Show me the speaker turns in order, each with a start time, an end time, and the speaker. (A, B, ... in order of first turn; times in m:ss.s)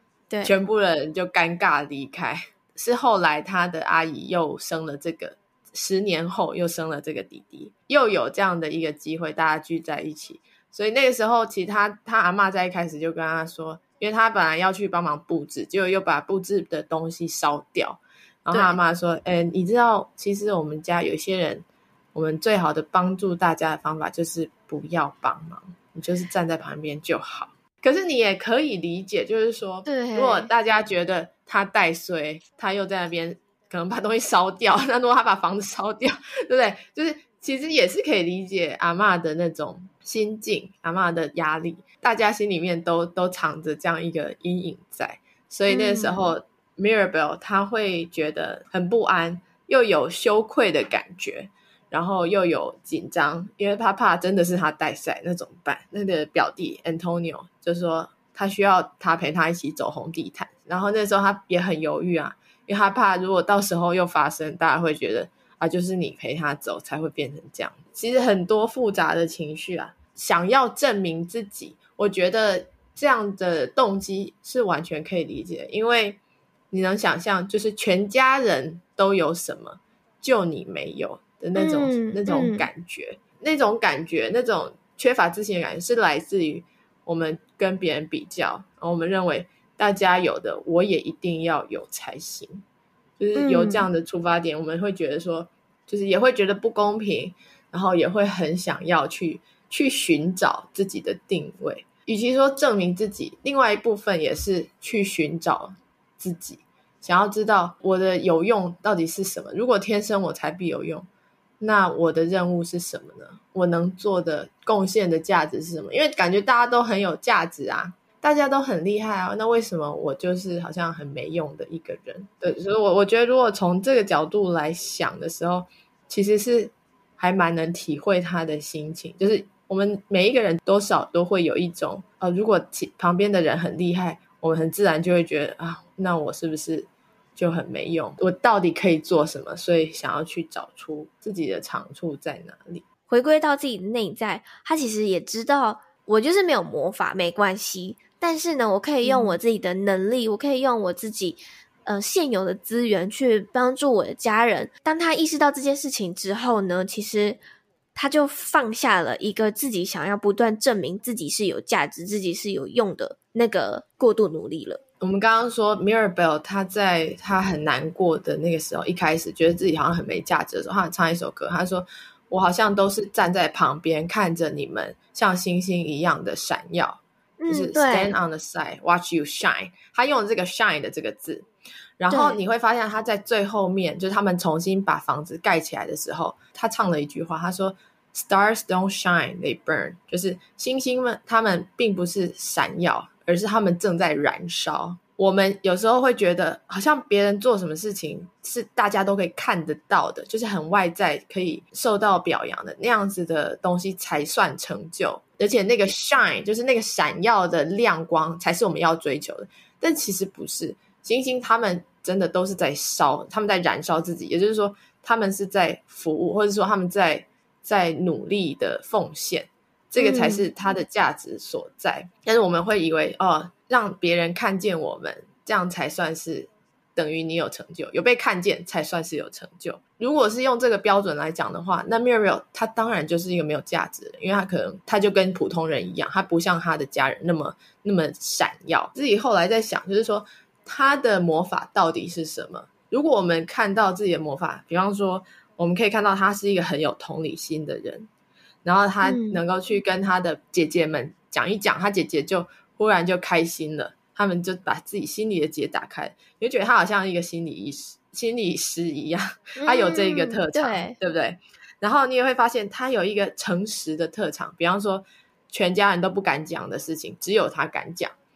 0:00.4-1:16.2 A
0:18.5-0:18.8 B
0:29.9-0:30.5 B
0:45.7-0:46.2 B
1:16.7-1:32.6 A
1:21.5-1:22.7 B
1:33.2-1:51.1 A
1:33.4-1:33.9 B
1:51.6-2:22.8 A
2:23.1-2:37.4 B
2:29.0-2:29.4 A
2:37.9-2:44.8 B
2:45.0-3:01.5 A
2:57.4-2:58.2 B
3:02.0-4:08.1 A
3:02.1-3:02.4 B
3:40.0-3:40.5 B
4:08.6-4:28.1 A
4:09.0-4:09.4 B
4:19.6-4:21.0 B